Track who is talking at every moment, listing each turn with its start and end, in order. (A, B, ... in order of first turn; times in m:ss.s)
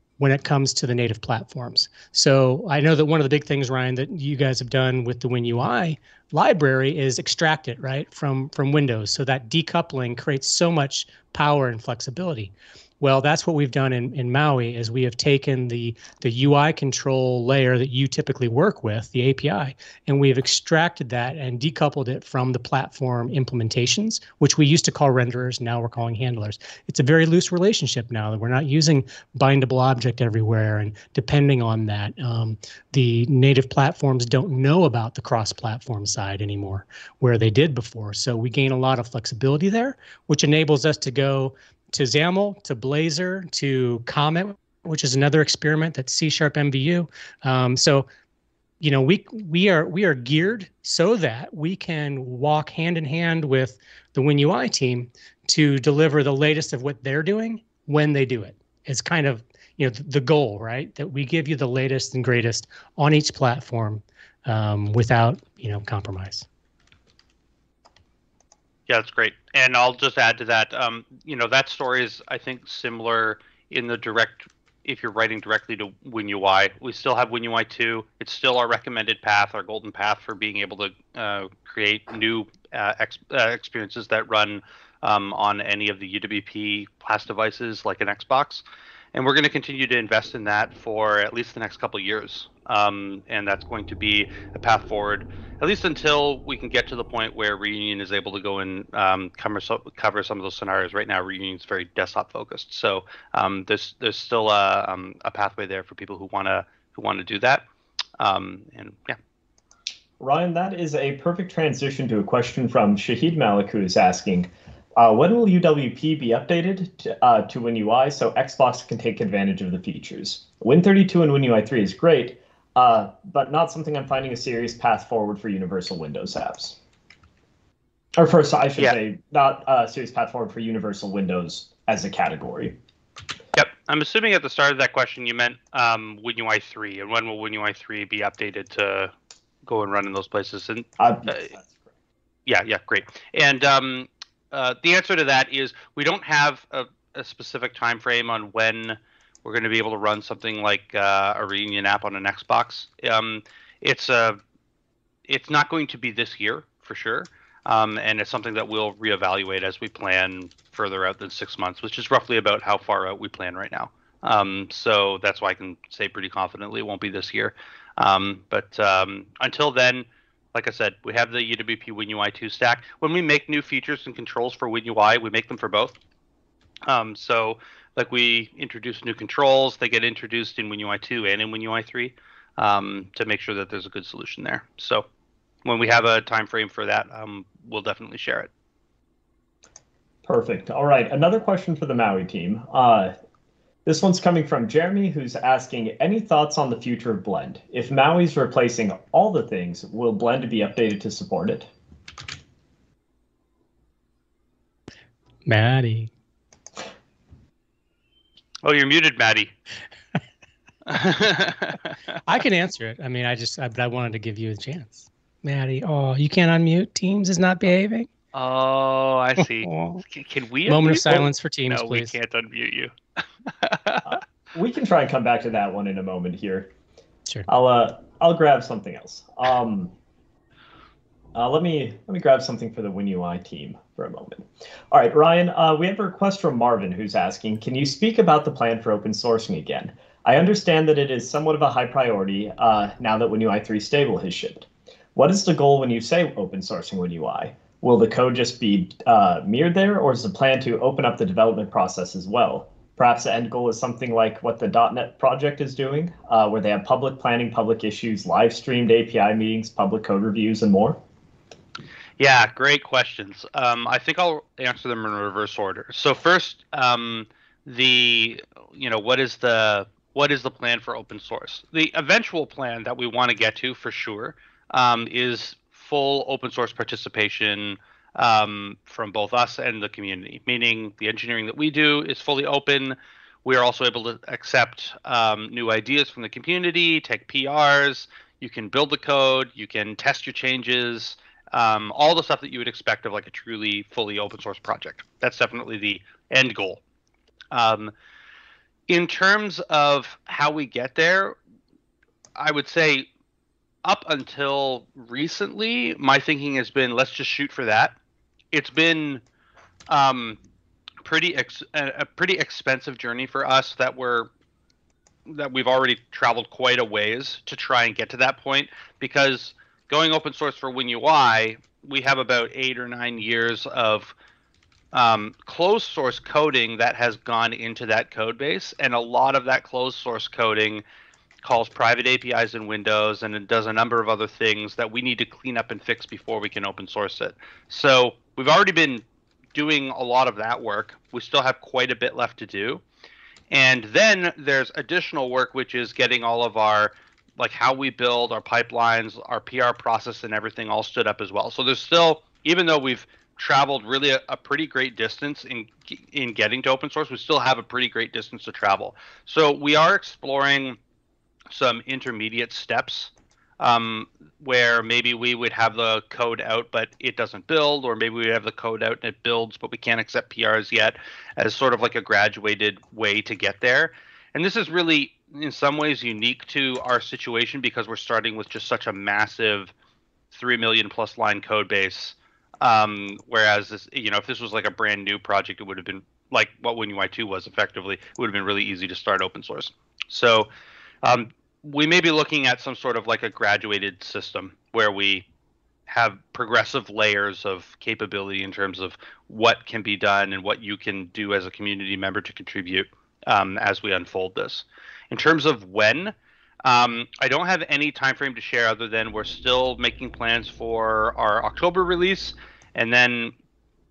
0:00.2-0:48.1 A
0:48.8-1:06.5 A
1:08.9-1:28.6 B
1:29.1-1:47.6 B
1:48.2-1:49.2 B
1:50.2-2:06.8 C
2:08.2-2:12.8 C
2:13.6-2:19.1 B
2:19.6-2:21.5 B
2:21.0-2:21.8 C
2:22.5-2:34.4 B
2:35.3-2:56.0 B
2:56.9-3:05.0 B
3:05.6-3:08.5 B
3:10.2-3:13.2 C
3:13.8-3:21.7 C
3:25.5-3:26.1 A
3:28.6-3:29.5 B
3:30.9-3:31.9 B
3:32.3-3:38.1 A
3:38.3-3:42.9 B
3:39.4-3:40.0 A
3:40.7-3:42.2 A
3:43.6-3:44.2 B
3:44.1-3:46.7 C
3:47.5-3:49.9 C
3:51.3-4:21.0 C
4:22.2-4:56.8 B
4:57.5-4:57.9 B
4:58.9-5:01.4 B
5:02.4-5:03.1 B
5:03.8-5:07.9 B
5:08.5-5:09.2 B
5:09.9-5:10.4 B
5:11.0-5:14.3 B
5:15.3-5:24.1 B
5:24.9-5:30.8 B
5:31.4-5:42.8 B
5:43.5-6:00.8 B
6:01.5-6:19.7 B
6:20.3-6:30.5 B
6:31.0-6:35.2 B
6:35.9-6:53.3 B